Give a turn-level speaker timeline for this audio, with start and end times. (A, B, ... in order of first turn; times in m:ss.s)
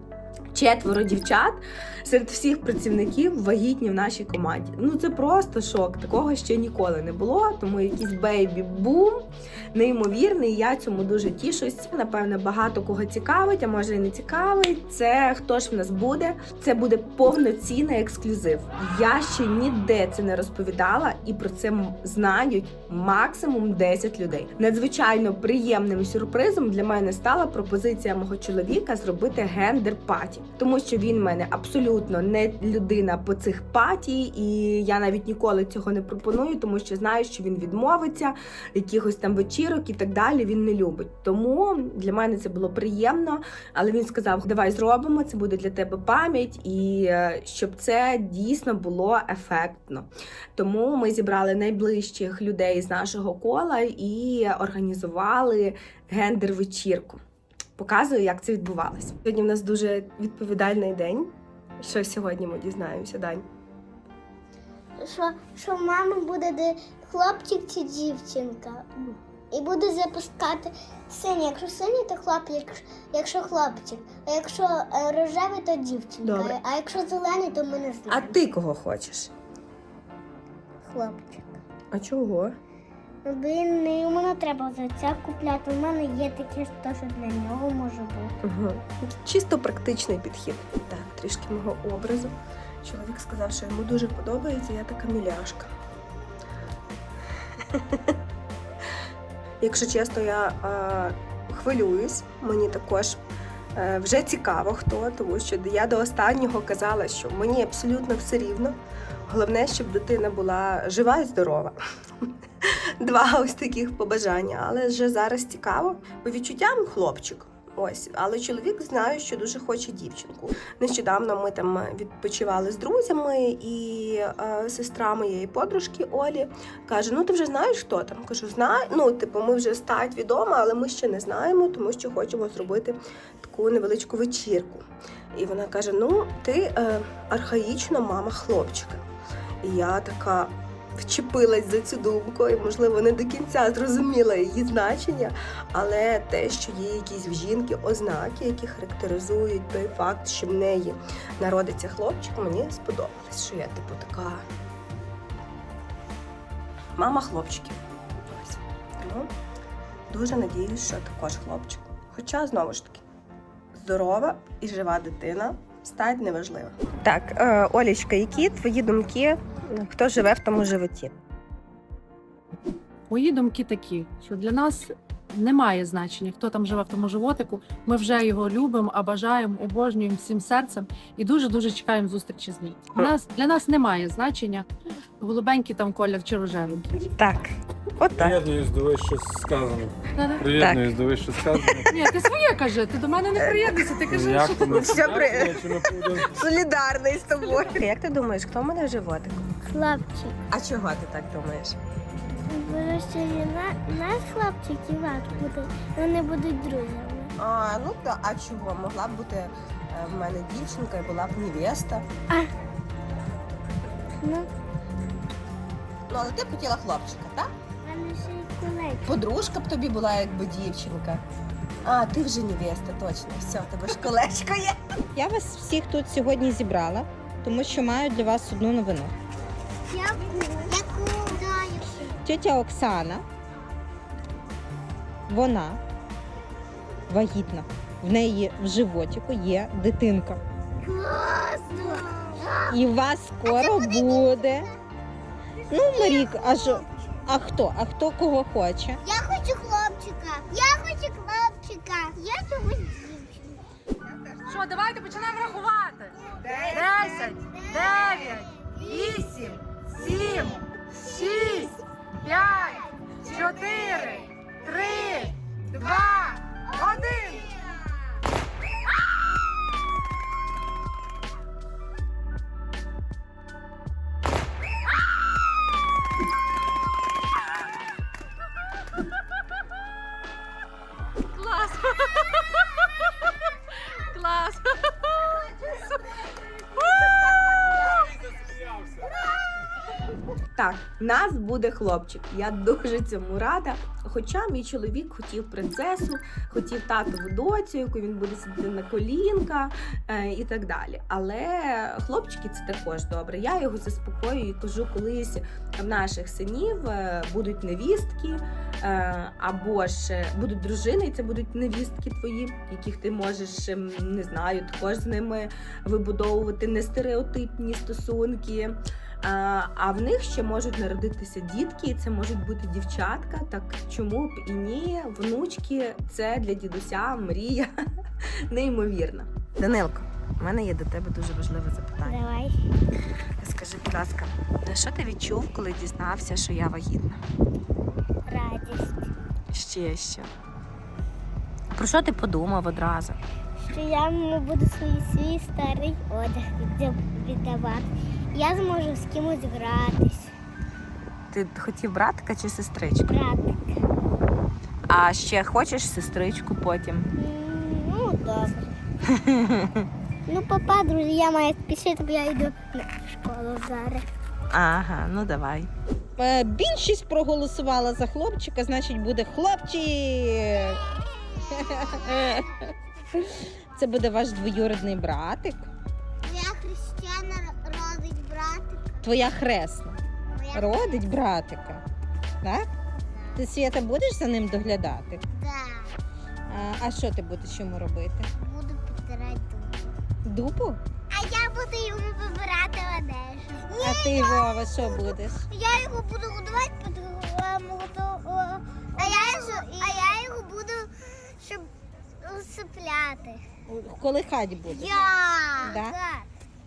0:00.5-0:57.2 A
0:57.8-1:03.5 A
1:05.0-1:08.9 B
1:09.5-1:18.4 B
1:16.2-1:16.6 A
1:18.1-1:19.3 A
1:20.8-1:21.6 B
1:21.9-1:22.5 A
1:23.2-1:28.3 B
1:28.4-1:35.7 A
1:37.7-1:38.0 A
1:39.6-1:43.2 A
1:43.8-2:19.1 A
2:19.6-2:34.4 A
2:37.0-2:37.8 A
2:38.3-2:39.3 A
2:40.1-2:43.0 A
2:43.8-2:51.2 A
2:53.1-3:04.7 C
3:05.2-3:07.0 C
3:07.2-3:08.4 A
3:08.1-3:12.0 D
3:10.1-3:10.5 C
3:10.6-3:10.9 A
3:11.5-3:11.8 A
3:11.9-3:14.9 C
3:13.4-3:13.9 A
3:14.1-3:16.4 D
3:14.6-3:19.5 A
3:19.7-3:20.4 B
3:20.5-3:21.8 A
3:22.5-3:27.3 B
3:27.4-3:32.1 A
3:34.2-3:34.5 B
3:36.1-3:37.5 A
3:37.8-3:39.2 B
3:39.0-3:41.2 A
3:41.8-3:44.8 A
3:45.2-3:49.1 E
3:49.9-3:52.2 B
3:52.2-3:53.2 E
3:55.3-3:55.8 E
3:57.1-4:00.4 E
4:00.8-4:02.8 B
4:02.7-4:04.7 E
4:03.5-4:04.8 B
4:05.7-4:09.0 E
4:05.7-4:06.8 B
4:09.0-4:13.6 B
4:14.4-4:27.5 C
4:17.3-4:21.7 B
4:22.2-4:28.2 B
4:41.3-4:42.7 C
4:43.8-4:46.1 C
4:46.8-4:48.0 C
4:50.6-5:27.7 A
5:28.5-5:32.2 A
5:32.0-5:32.6 B
5:33.4-5:37.2 A
5:38.3-5:39.1 B
5:39.5-5:40.3 A
5:41.7-5:43.2 A
5:43.6-5:50.4 B
5:51.3-5:53.2 A
5:53.0-5:53.8 B
5:54.9-5:57.1 A
5:57.2-5:58.8 B
5:59.1-5:59.9 A
6:00.3-6:04.0 B
6:04.5-6:05.7 A
6:06.2-6:15.7 E
6:16.2-6:19.0 B
6:19.0-6:20.0 E
6:20.3-6:21.0 B
6:20.5-6:21.8 E
6:22.4-6:22.7 E
6:23.0-6:23.4 B
6:23.4-6:25.2 E
6:25.3-6:26.0 B
6:26.5-6:28.3 E
6:28.4-6:30.0 B
6:30.2-6:30.8 E
6:31.1-6:41.7 B
6:33.8-6:35.5 E
6:42.2-6:43.4 B
6:43.7-6:46.0 E
6:44.7-6:46.3 B